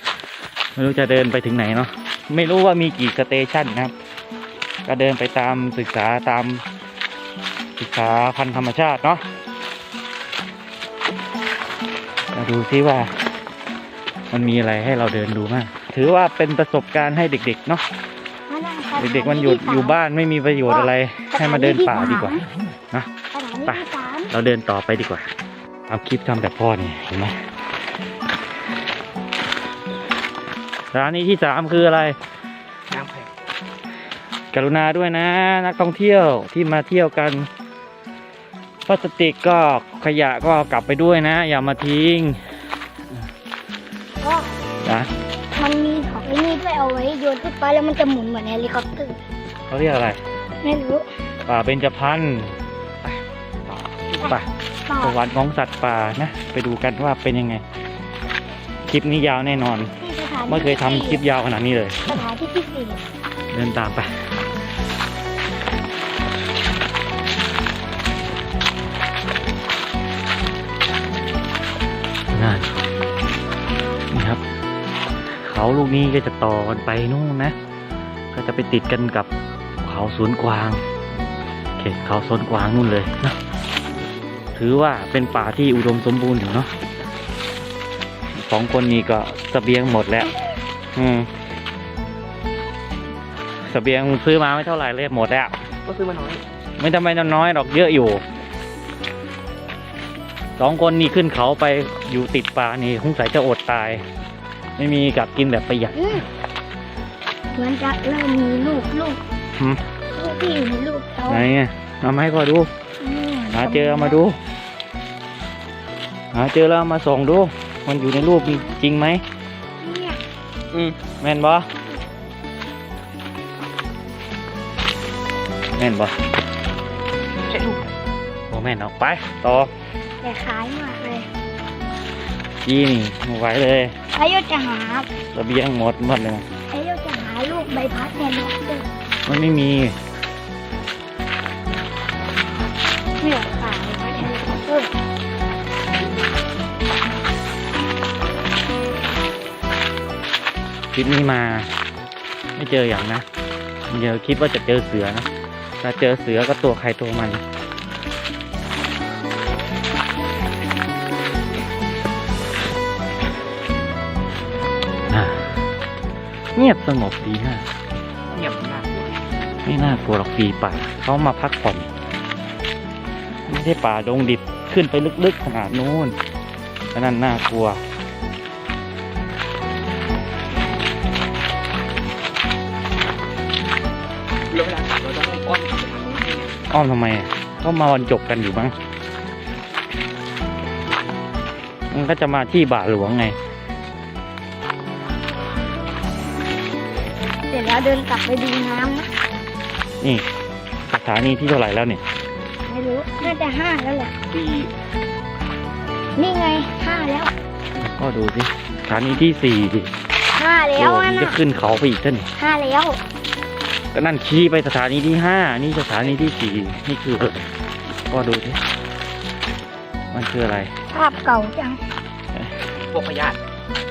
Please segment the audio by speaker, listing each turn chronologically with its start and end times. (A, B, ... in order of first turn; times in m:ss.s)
0:00.8-0:03.9 A
0:04.8-0:06.6 A
0:07.8-0:09.2 A
0:12.3-0:13.1 A
0:14.3-0:17.8 A
0:18.5-0:20.0 B
0:19.0-0:22.4 A
0:20.7-0:22.4 B
0:23.3-0:24.3 B
0:23.7-0:25.3 A
0:25.9-0:27.5 A
0:30.9-0:32.2 A
0:32.9-0:33.3 C
0:34.5-0:37.5 A
0:38.9-0:42.6 A
0:44.2-0:44.6 B
0:44.8-0:45.1 A
0:45.6-0:49.2 B
0:49.7-0:50.2 A
0:50.6-0:51.1 B
0:51.5-0:52.6 A
0:53.0-0:54.4 C
0:54.2-0:55.2 B
0:55.0-0:57.6 A
0:58.9-0:59.9 A
1:00.0-1:01.2 B
1:00.5-1:02.0 A
1:02.1-1:03.0 B
1:03.5-1:04.2 A
1:12.3-1:12.7 A
1:14.1-1:14.4 A
1:15.3-1:17.6 A
1:18.3-1:19.3 A
1:19.8-1:20.8 A
1:21.8-1:23.4 A
1:23.9-1:24.5 C
1:24.6-1:26.7 A
1:28.4-1:30.3 A
1:31.0-1:31.3 A
1:33.6-1:35.6 A
1:35.8-1:36.4 C
1:36.8-1:38.2 A
1:40.6-1:44.0 A
1:44.8-1:46.2 A
1:46.0-1:46.2 B
1:47.6-1:49.2 B
1:50.2-1:51.4 B
1:51.3-1:52.7 A
1:53.0-1:54.2 B
1:53.5-1:54.4 A
1:56.3-1:59.2 A
1:58.0-1:58.8 B
1:59.8-2:00.2 B
2:00.7-2:01.0 C
2:01.2-2:01.7 A
2:05.8-2:06.2 A
2:07.4-2:07.9 C
2:08.5-2:09.7 A
2:10.2-2:11.3 B
2:12.6-2:14.0 A
2:14.1-2:15.1 B
2:15.3-2:16.5 A
2:16.7-2:18.9 B
2:19.3-2:20.0 A
2:23.2-2:24.9 B
2:30.9-2:31.7 A
2:32.6-2:33.3 A
2:33.9-2:35.3 A
2:35.8-2:37.4 A
2:45.1-2:45.6 A
2:46.6-2:47.7 A
2:48.3-2:49.1 C
2:49.6-2:51.9 A
2:53.5-2:56.2 A
2:56.9-2:57.8 A
3:04.5-3:06.5 C
3:06.7-3:08.8 A
3:11.9-3:13.4 A
3:17.5-3:19.1 B
3:20.0-3:20.3 A
3:20.9-3:22.0 A
3:22.7-3:24.1 B
3:24.3-3:24.7 C
3:26.2-3:27.3 B
3:27.8-3:29.9 A
3:30.4-3:31.4 B
3:30.8-3:32.3 A
3:32.4-3:33.0 B
3:33.9-3:38.6 A
3:40.1-3:40.7 A
3:40.9-3:41.8 B
3:42.9-3:43.4 C